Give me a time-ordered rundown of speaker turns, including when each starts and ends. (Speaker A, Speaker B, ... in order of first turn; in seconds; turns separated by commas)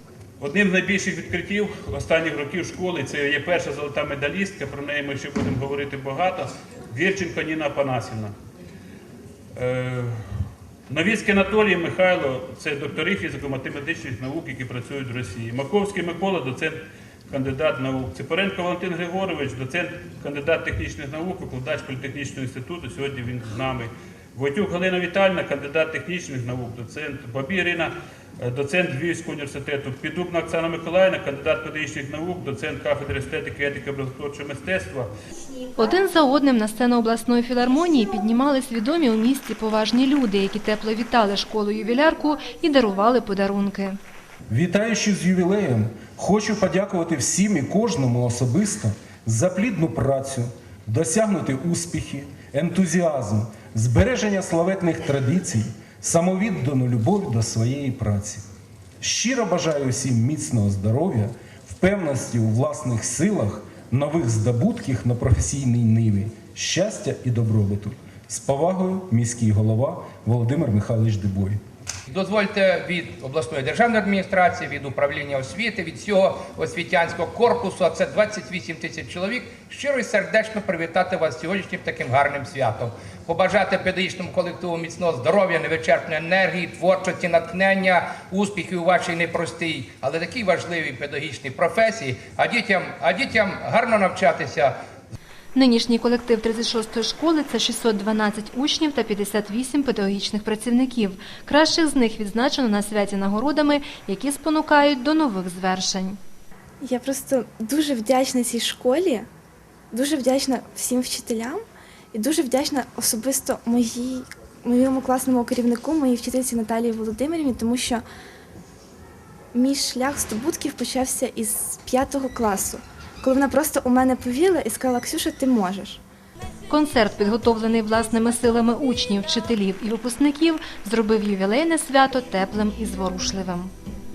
Speaker A: 0.4-8.3, Speaker A: 9.6-10.2, Speaker A: 10.9-35.1, Speaker B: 35.8-44.0, Speaker C: 44.5-58.4, Speaker C: 59.0-71.6, Speaker D: 72.1-94.7, Speaker B: 95.5-106.2, Speaker E: 106.8-109.2, Speaker E: 109.9-111.6, Speaker E: 112.1-118.0, Speaker E: 119.5-126.0, Speaker B: 126.7-133.7